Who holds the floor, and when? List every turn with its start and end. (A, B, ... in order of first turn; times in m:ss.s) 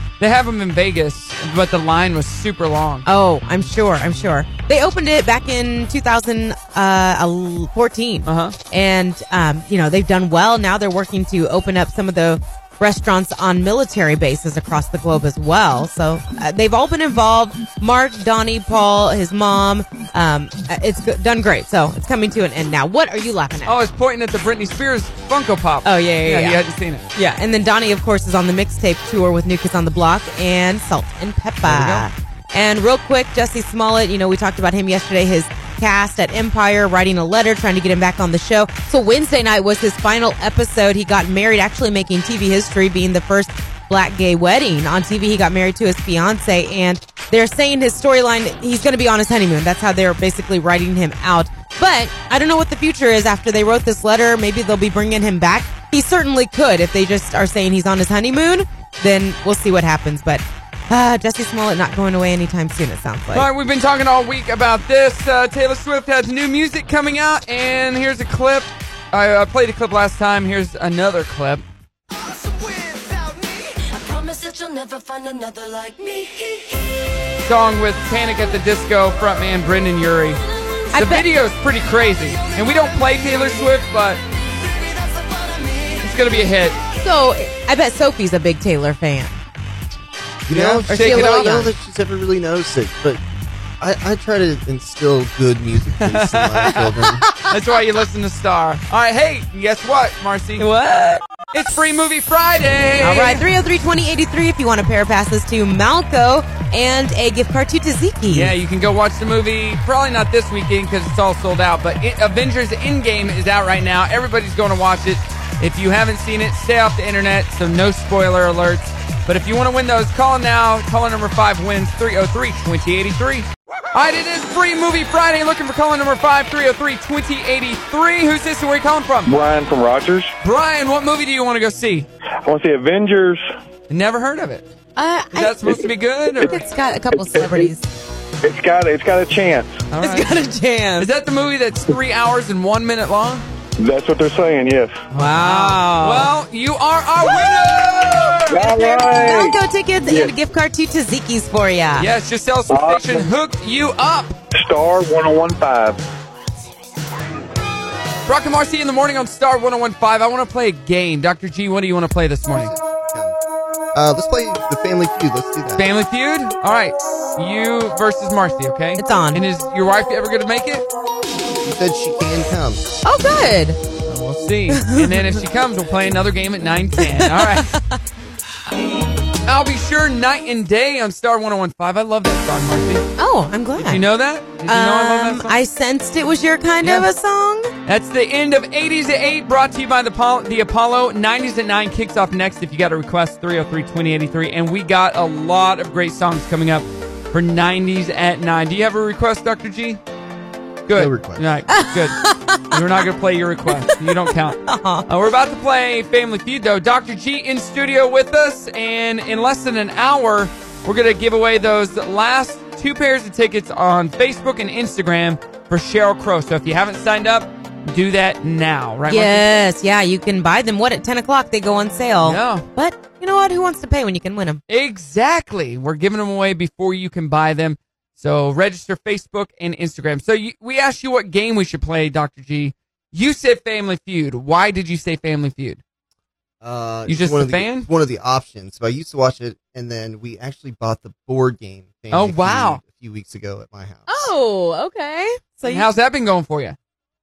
0:00.2-0:03.0 A
0:03.1-0:23.8 B
0:08.3-0:08.6 A
0:23.7-0:27.0 A
0:25.8-0:26.6 B
0:27.1-1:03.5 B
0:31.6-0:32.1 A
1:03.3-1:11.6 A
1:12.1-1:16.9 C
1:17.4-1:20.4 A
1:20.9-1:21.3 B
1:20.9-1:24.2 A
1:22.4-1:23.7 C
1:24.6-1:26.1 C
1:26.0-1:26.8 A
1:27.0-1:29.4 B
1:30.5-1:33.2 D
1:30.5-1:31.6 A
1:30.9-1:31.7 B
1:33.8-1:37.2 D
1:36.0-1:40.7 A
1:37.2-1:37.6 B
1:40.6-1:41.3 B
1:41.5-1:43.4 A
1:43.0-1:48.5 B
1:48.3-2:09.3 A
2:09.3-2:10.3 E
2:10.4-2:12.1 A
2:12.4-2:13.4 E
2:13.9-2:14.7 A
2:15.0-2:15.8 B
2:15.3-2:16.6 A
2:16.4-2:17.8 B
2:17.3-2:17.7 E
2:18.4-2:19.8 E
2:19.9-2:20.3 A
2:20.0-2:21.1 B
2:21.0-2:23.4 A
2:23.8-2:25.0 E
2:25.1-2:28.7 A
2:25.1-2:26.3 B
2:28.5-2:30.3 E
2:28.6-2:32.1 B
2:32.0-2:34.4 A
2:32.7-2:33.3 E
2:34.5-2:36.0 E
2:38.3-2:42.7 A
2:42.5-2:43.4 D
2:43.9-2:45.9 D
2:45.8-2:50.9 A
2:49.0-2:49.4 B
2:51.6-2:52.8 D
2:53.0-2:53.8 B
2:54.1-2:57.7 A
2:54.7-2:55.3 B
2:57.0-2:58.0 B
2:59.5-3:03.1 A
3:03.2-3:04.0 B
3:03.8-3:05.6 A
3:04.7-3:07.7 B
3:07.9-3:20.0 A
3:20.9-3:39.4 A
3:20.9-3:21.5 D
3:21.7-3:22.8 B
3:23.7-3:25.1 B
3:39.1-3:44.6 B
3:42.2-3:42.7 A
3:44.7-3:55.8 A
3:56.6-4:04.3 D
3:57.1-3:57.9 A
4:02.1-4:02.8 A
4:04.1-4:05.9 B
4:05.6-4:06.8 A